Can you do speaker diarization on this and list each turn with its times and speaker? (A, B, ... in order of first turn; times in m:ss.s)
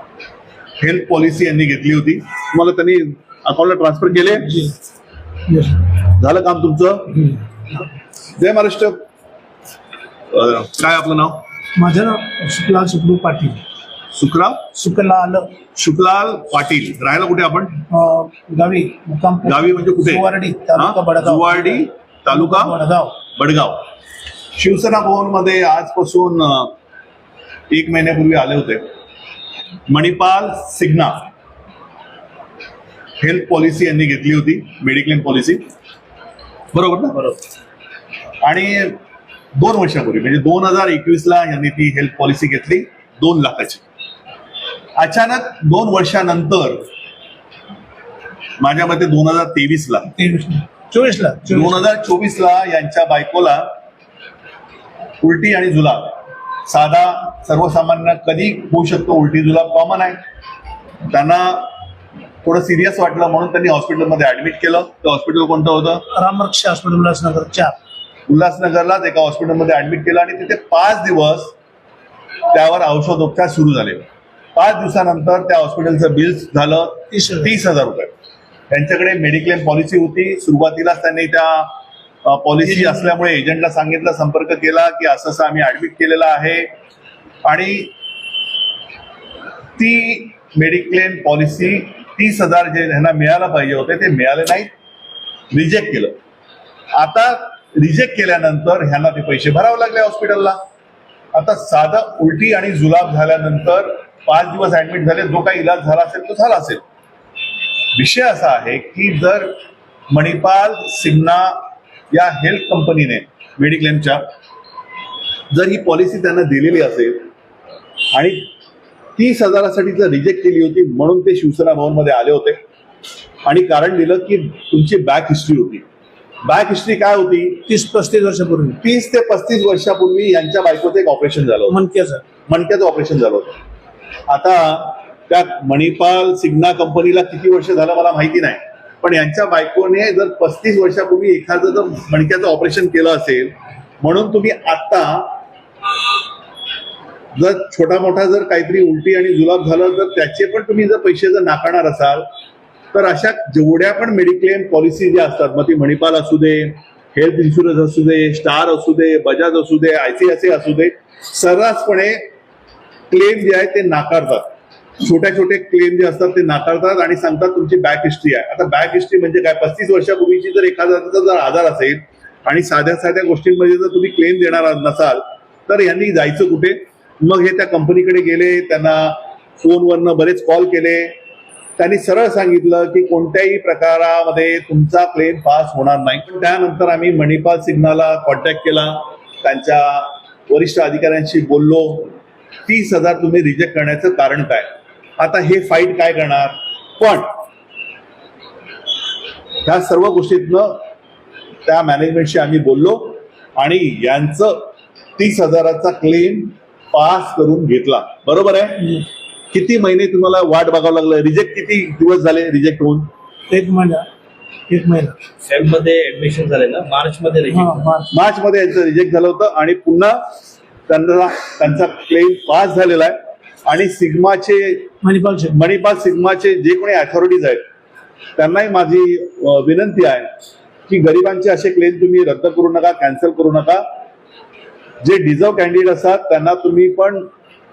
0:00.8-0:04.6 A
0:04.3-0:04.8 B
0:05.5-0:05.8 B
0:06.0-0:07.4 A
0:08.4-0:09.0 A
0:10.3-0:11.4 A
0:11.7-0:13.6 B
0:14.1-0:14.7 A
0:14.7-0:15.6 B
0:15.8-0:17.8 A
0:17.9-0:23.2 B
0:19.4-0:22.8 A
0:23.3-0:23.9 A
0:24.6-0:26.7 A
0:27.7-0:28.8 A
0:29.9-0:31.3 A
0:33.2-0:35.6 A
0:36.7-0:37.4 A
0:38.4-0:39.0 A
0:39.6-0:43.8 A
0:45.0-0:46.9 A
0:48.6-0:50.1 A
0:50.2-0:51.9 B
0:51.5-0:53.7 A
0:55.2-1:00.2 A
1:01.1-1:01.7 A
1:02.4-1:06.0 A
1:06.1-1:07.8 B
1:08.3-1:11.6 A
1:12.5-1:18.1 A
1:17.1-1:17.6 B
1:18.7-1:26.7 A
1:27.4-1:27.9 A
1:29.8-1:34.7 A
1:35.5-1:36.2 A
1:36.9-1:40.6 A
1:41.3-1:46.8 A
1:48.0-1:49.5 A
1:50.1-1:51.6 A
1:52.1-1:54.3 A
1:55.5-1:57.2 A
1:58.1-1:58.5 A
1:59.2-2:02.6 A
2:03.4-2:05.8 A
2:06.4-2:07.7 A
2:07.7-2:08.8 B
2:08.8-2:11.8 A
2:11.7-2:12.2 B
2:12.5-2:13.6 A
2:14.3-2:25.4 A
2:27.4-2:32.3 A
2:32.9-2:42.2 A
2:43.1-3:01.1 A
3:01.8-3:12.2 A
3:12.7-3:17.3 A
3:19.6-3:20.8 A
3:21.6-3:33.1 A
3:33.5-3:34.1 B
3:34.7-3:35.2 B
3:35.4-3:37.9 C
3:37.5-3:38.2 B
3:38.1-3:40.2 A
3:40.9-3:44.9 A
3:45.0-3:45.6 B
3:45.5-3:47.6 A
3:48.4-3:50.3 A
3:50.9-3:53.8 A
3:55.0-3:57.3 A